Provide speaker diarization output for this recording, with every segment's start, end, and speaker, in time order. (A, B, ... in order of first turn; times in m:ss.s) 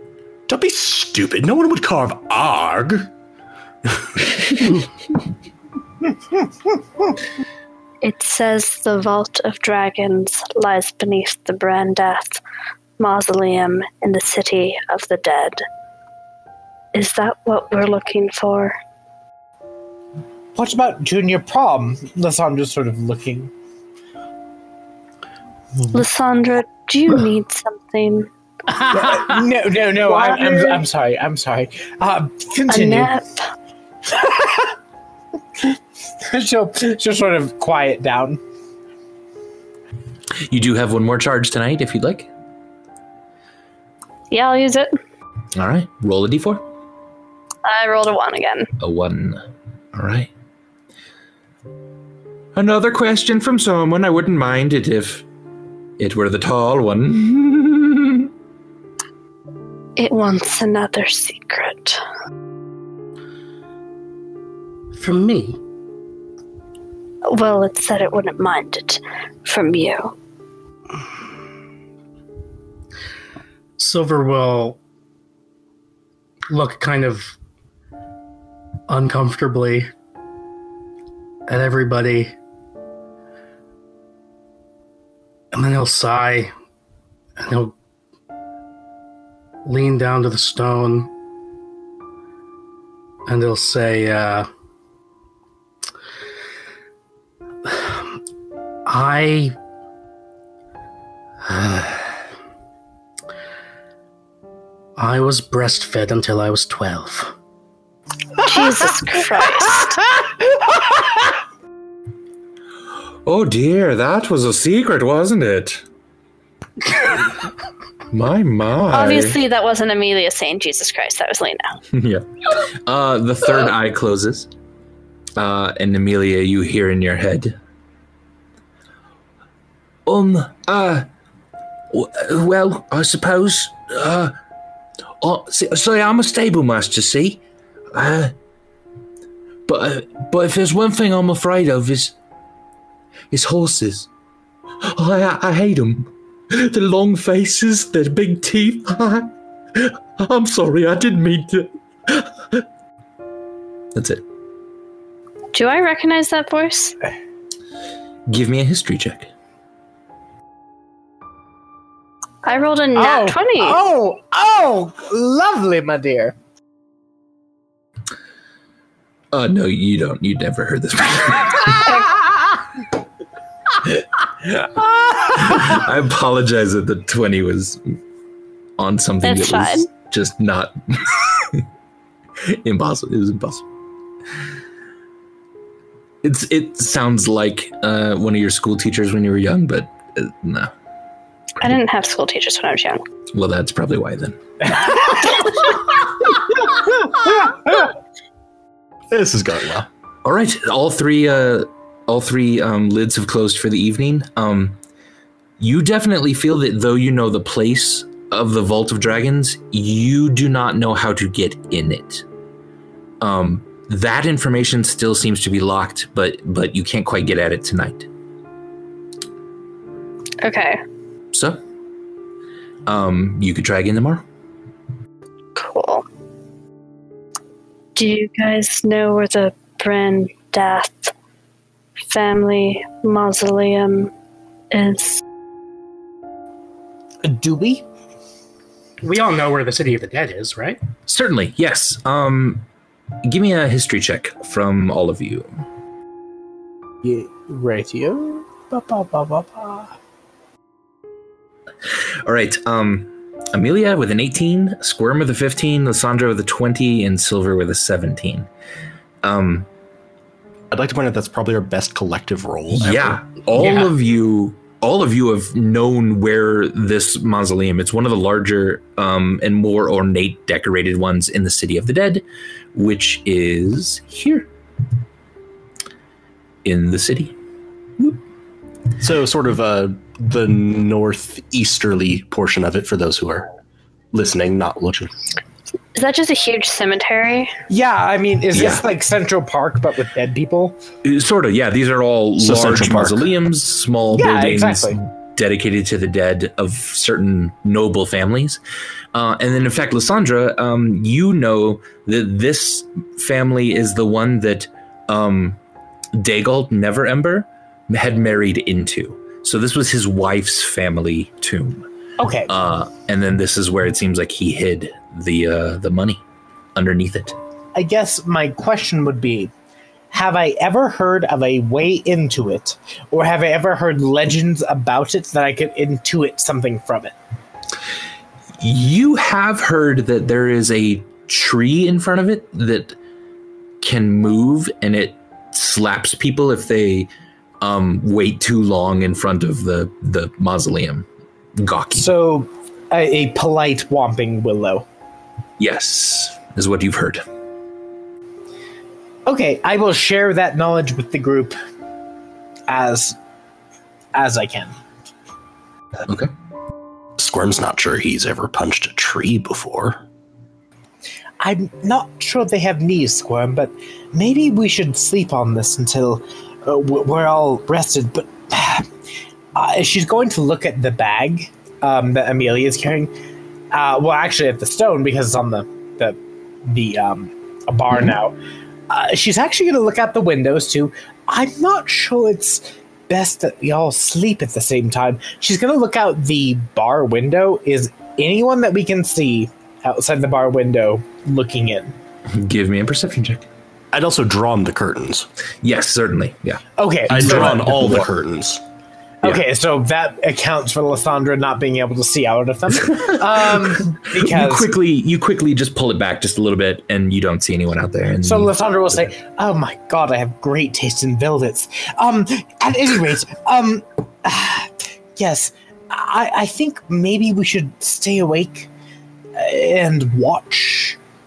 0:00.5-0:03.1 A
0:08.0-0:12.4 B
0:13.0-0:15.6 B
0:16.9-0:18.8 B
0:20.6-0:23.5 C
0:25.9-0:28.3 B
0:28.7-0:29.5 D
0:28.9-0:33.1 C
0:32.7-0:33.5 B
0:34.1-0:34.7 C
0:35.6-0:38.4 C
0:40.5-0:42.3 E
0:44.3-0:45.0 B
0:45.6-0:46.6 E
0:47.6-0:48.7 B
0:48.8-0:50.3 E
0:52.6-0:55.2 E
0:56.0-0:58.3 E
1:00.0-1:02.0 B
1:04.9-1:05.6 D
1:07.3-1:10.2 B
1:13.8-1:14.8 D
1:16.5-1:17.4 D
1:18.9-1:19.9 D
1:21.5-1:22.4 D
1:25.5-1:26.5 D
1:27.4-1:27.8 D
1:29.6-1:31.1 D
1:33.3-1:34.5 D
1:37.6-1:38.2 D
1:38.9-1:39.6 D
1:41.4-1:42.2 D
1:45.0-1:47.3 D
1:48.4-1:50.0 B
1:53.3-1:55.8 E
1:58.1-1:59.4 E
1:58.9-2:01.8 B
2:01.9-2:04.5 E
2:05.4-2:07.6 E
2:10.1-2:11.1 E
2:11.9-2:14.4 E
2:15.2-2:17.4 E
2:17.9-2:18.3 E
2:19.7-2:22.2 E
2:23.3-2:24.1 E
2:24.8-2:32.6 E
2:34.0-2:34.2 E
2:35.5-2:37.0 B
2:38.3-2:39.3 E
2:42.4-2:43.8 B
2:43.0-2:46.4 C
2:49.3-2:51.9 E
2:51.6-2:52.2 B
2:53.8-2:58.0 E
2:58.8-3:01.6 E
2:59.2-2:59.9 B
3:02.4-3:03.7 E
3:06.2-3:10.7 E
3:11.6-3:13.0 B
3:13.3-3:14.4 E
3:14.8-3:15.5 C
3:17.2-3:17.7 C
3:19.1-3:19.9 A
3:20.2-3:24.8 E
3:25.6-3:32.2 E
3:33.2-3:38.1 E
3:40.4-3:40.8 B
3:41.3-3:41.6 E
3:42.9-3:44.2 E
3:45.6-3:46.1 B
3:48.0-3:51.1 B
3:52.1-3:54.1 B
3:54.7-3:55.2 B
3:57.2-3:57.8 C
3:59.0-4:00.8 D
4:01.1-4:02.6 E
4:03.2-4:05.5 E
4:07.0-4:10.0 C
4:12.2-4:18.5 E
4:19.2-4:19.7 E
4:20.7-4:23.2 A
4:22.8-4:34.5 E
4:23.6-4:23.9 D
4:36.6-4:37.4 E
4:39.0-4:43.5 A
4:44.1-4:45.1 A
4:45.9-4:47.5 B
4:47.7-4:50.8 C
4:48.5-4:48.8 E
4:51.0-4:58.6 E
4:52.4-4:53.3 A
4:54.1-4:55.0 C
4:59.1-5:05.6 E
5:06.1-5:11.9 E
5:12.2-5:12.5 C
5:12.5-5:16.2 E
5:16.8-5:17.4 E
5:17.8-5:19.5 C
5:20.1-5:27.2 C
5:28.6-5:33.0 E
5:33.8-5:37.1 E
5:37.6-5:42.1 E
5:42.0-5:44.9 C
5:45.6-5:47.2 E
5:49.3-5:51.6 C
5:52.7-5:53.2 C
5:54.1-5:54.7 C
5:57.2-6:00.0 A
6:01.4-6:08.9 C
6:09.6-6:13.1 C
6:13.7-6:18.4 C
6:18.9-6:32.0 C
6:32.3-6:33.5 E
6:33.9-6:35.3 A
6:35.6-6:38.1 E
6:36.8-6:37.9 C
6:37.1-6:38.6 A
6:39.2-6:44.7 C
6:44.0-6:49.1 E
6:48.2-6:58.7 C
6:59.4-7:01.0 C